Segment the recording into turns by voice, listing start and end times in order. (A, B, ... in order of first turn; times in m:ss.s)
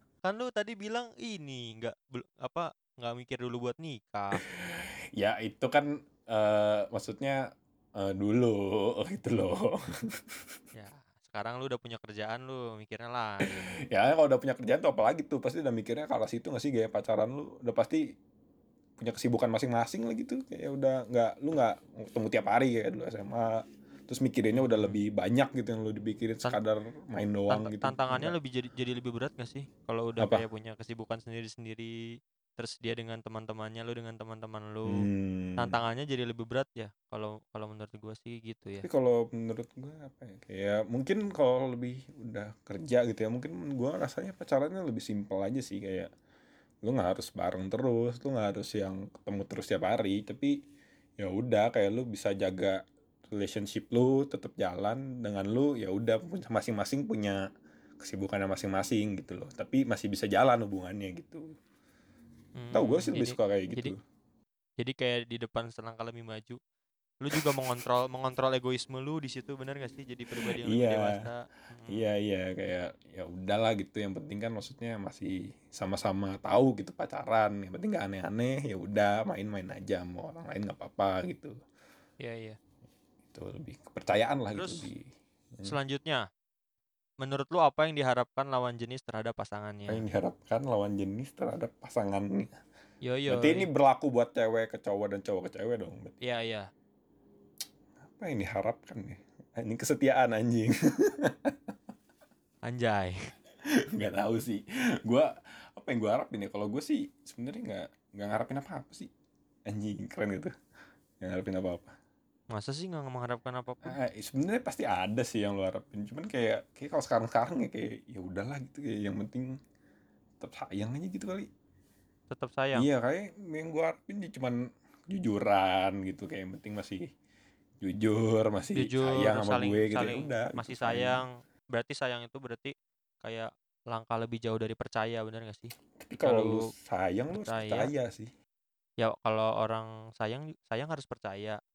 0:00.2-0:04.4 A
0:04.4-0:10.4 B
0:10.7-0:13.7 A
0:13.4-0:18.0 B
0:19.0-0:28.3 B
0:24.5-0:25.0 A
0:27.5-0:32.0 A
0:32.6-0:35.0 A
0:34.9-0:35.8 B
0:35.6-0:38.8 A
0:38.8-0:46.1 B
0:46.8-0:50.6 B
0:51.2-0:57.4 B
0:58.0-1:01.5 B
1:02.6-1:03.9 A
1:02.7-1:04.0 B
1:04.8-1:06.6 A
1:07.2-1:12.1 A
1:10.4-1:11.2 B
1:11.9-1:21.6 B
1:22.2-1:22.6 A
1:23.3-1:25.8 B
1:24.5-1:24.9 A
1:25.6-1:26.2 A
1:27.2-1:30.0 A
1:29.9-1:32.5 B
1:33.0-1:33.7 A
1:33.3-1:36.2 B
1:36.2-1:36.7 A
1:38.1-1:41.7 B
1:42.7-1:43.3 A
1:43.7-1:49.1 B
1:49.7-1:50.5 B
1:51.2-1:51.9 B
1:52.5-1:53.9 A
1:53.8-1:59.6 B
2:00.4-2:01.5 B
2:02.3-2:02.8 A
2:02.8-2:07.0 B
2:07.8-2:11.2 B
2:08.7-2:16.7 A
2:16.0-2:18.3 B
2:17.3-2:17.9 A
2:19.0-2:21.6 A